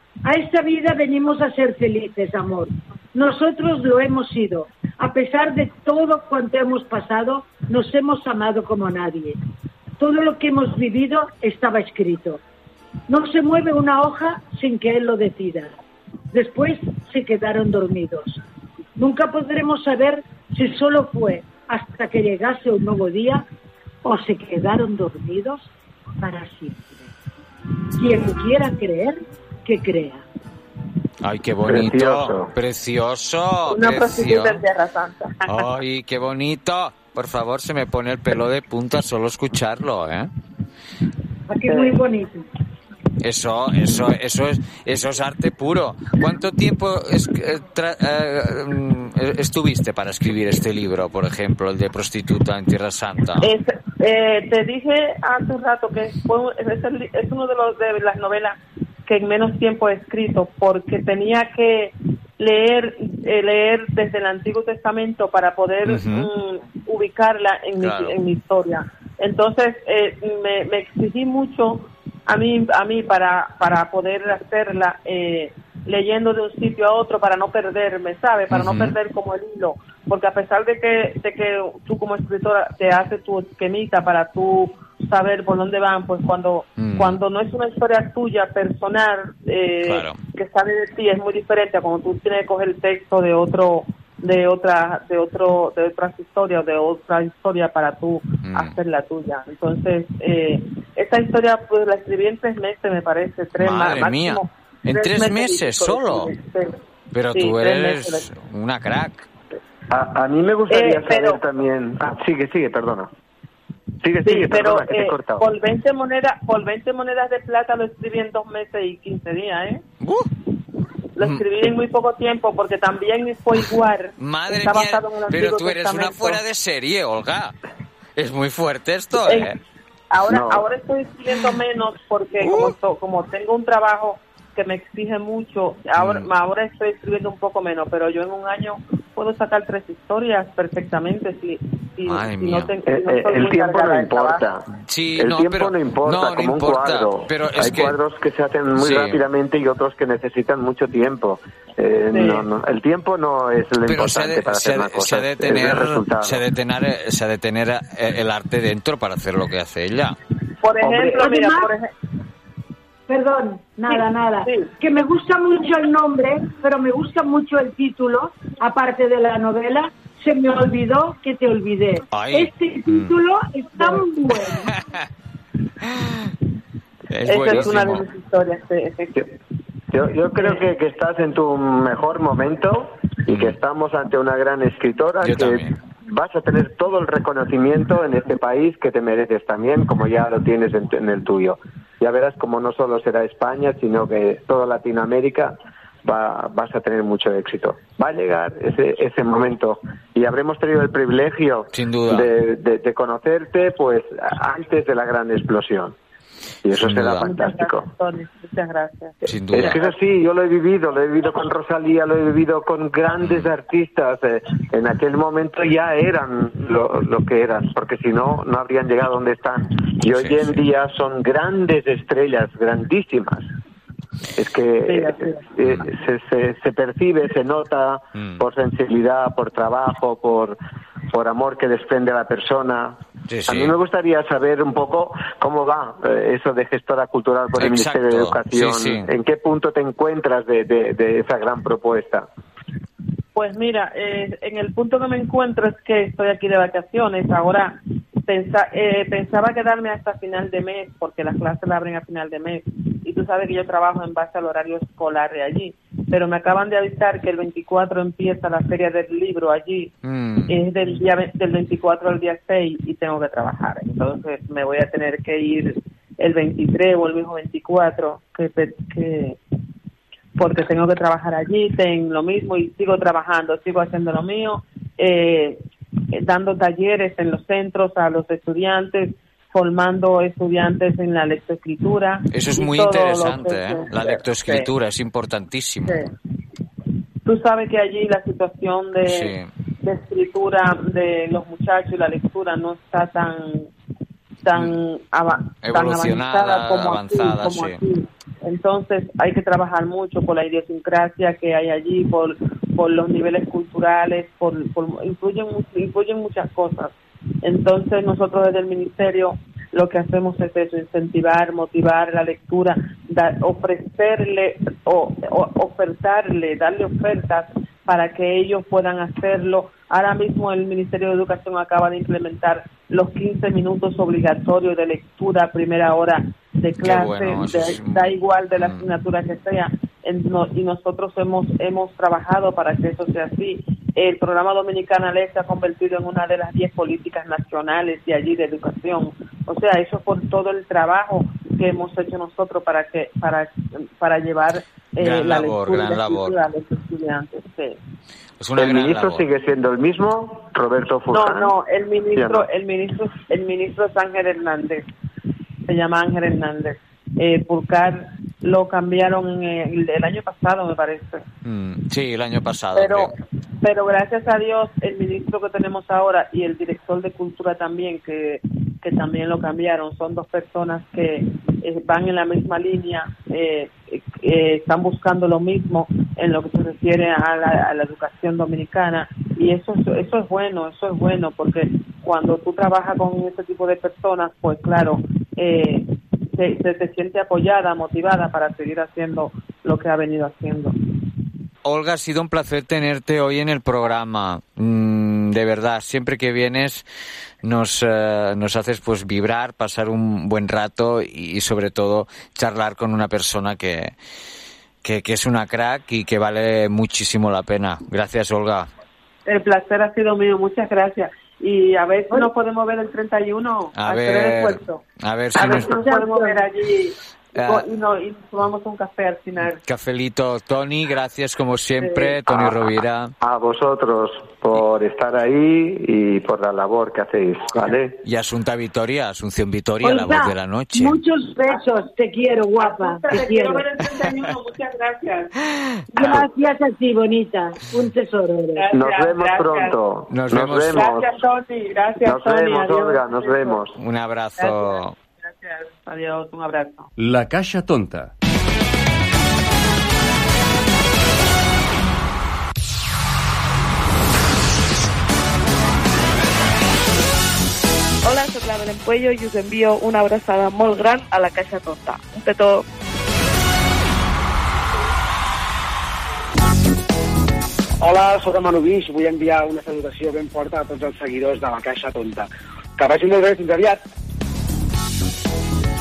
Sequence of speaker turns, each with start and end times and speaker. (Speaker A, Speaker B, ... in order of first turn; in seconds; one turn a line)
Speaker A: 0.2-9.4
Speaker A: 10.0-12.4
Speaker A: 13.1-15.7
Speaker A: 16.3-18.4
Speaker A: 19.0-23.4
Speaker A: 24.0-26.9
Speaker A: 28.0-30.2
Speaker B: 31.2-34.6
Speaker C: 31.7-32.5
Speaker D: 33.7-35.6
Speaker B: 35.5-40.3
Speaker A: 41.5-42.5
Speaker D: 41.6-42.0
Speaker B: 43.2-53.5
Speaker D: 53.4-106.8
Speaker B: 65.9-66.3
Speaker B: 67.8-68.2
Speaker B: 78.5-79.0
Speaker B: 86.8-87.2
Speaker B: 89.8-90.2
Speaker B: 98.5-98.7
Speaker B: 103.6-106.3
Speaker B: 107.1-109.3
Speaker D: 107.3-108.3
Speaker C: 109.9-113.1
Speaker D: 110.7-111.4
Speaker C: 114.0-115.5
Speaker D: 114.2-119.8
Speaker B: 120.0-120.3
Speaker D: 121.2-126.4
Speaker B: 124.2-127.5
Speaker B: 128.2-129.5
Speaker D: 129.2-129.5
Speaker D: 130.1-144.4
Speaker C: 130.3-130.7
Speaker B: 132.4-132.7
Speaker B: 136.0-136.3
Speaker B: 142.1-142.7
Speaker C: 142.9-156.4
Speaker B: 144.8-148.0
Speaker B: 148.8-149.2
Speaker D: 152.1-152.4
Speaker B: 153.9-160.2
Speaker D: 160.6-161.9
Speaker C: 160.8-161.4
Speaker A: 161.2-161.7
Speaker A: 163.1-174.7
Speaker D: 163.9-164.7
Speaker B: 172.1-173.2
Speaker B: 177.1-178.1
Speaker D: 177.3-179.3
Speaker C: 179.9-206.0
Speaker D: 180.4-180.6
Speaker B: 183.3-183.6
Speaker B: 185.2-185.8
Speaker B: 201.7-202.3
Speaker C: 206.6-207.9
Speaker B: 206.8-207.3
Speaker D: 207.2-209.2
Speaker B: 209.2-209.8
Speaker C: 209.5-223.5
Speaker B: 213.2-213.5
Speaker B: 220.1-220.6
Speaker C: 224.4-230.6
Speaker D: 224.9-225.4
Speaker B: 228.2-228.4
Speaker C: 231.1-242.3
Speaker B: 233.3-233.8
Speaker B: 237.6-239.1
Speaker D: 243.3-259.9
Speaker B: 260.1-260.6
Speaker D: 260.5-269.4
Speaker D: 270.4-284.7
Speaker B: 282.3-286.1
Speaker D: 287.2-293.7
Speaker B: 289.1-289.5
Speaker D: 294.4-347.8
Speaker B: 295.6-297.8
Speaker B: 326.8-328.8
Speaker B: 345.0-346.4
Speaker B: 348.4-349.2
Speaker C: 348.6-351.5
Speaker D: 351.1-354.9
Speaker C: 352.1-352.5
Speaker D: 355.7-361.2
Speaker B: 361.4-363.1
Speaker D: 362.8-363.1
Speaker D: 363.6-390.8
Speaker B: 391.6-396.9
Speaker B: 397.4-403.9
Speaker B: 404.8-408.7
Speaker D: 409.3-414.8
Speaker B: 413.8-415.8
Speaker D: 415.3-419.6
Speaker A: 415.5-416.3
Speaker B: 417.4-417.6
Speaker B: 419.6-423.1
Speaker D: 421.8-422.2
Speaker C: 422.3-428.0
Speaker B: 428.0-431.0
Speaker A: 429.8-433.6
Speaker D: 432.6-435.3
Speaker A: 435.9-438.6
Speaker D: 438.6-439.8
Speaker C: 438.7-441.2
Speaker B: 440.1-440.9
Speaker D: 440.7-443.6
Speaker C: 442.0-443.8
Speaker B: 443.8-444.9
Speaker D: 444.4-446.9
Speaker E: 458.0-462.6
Speaker F: 467.8-473.8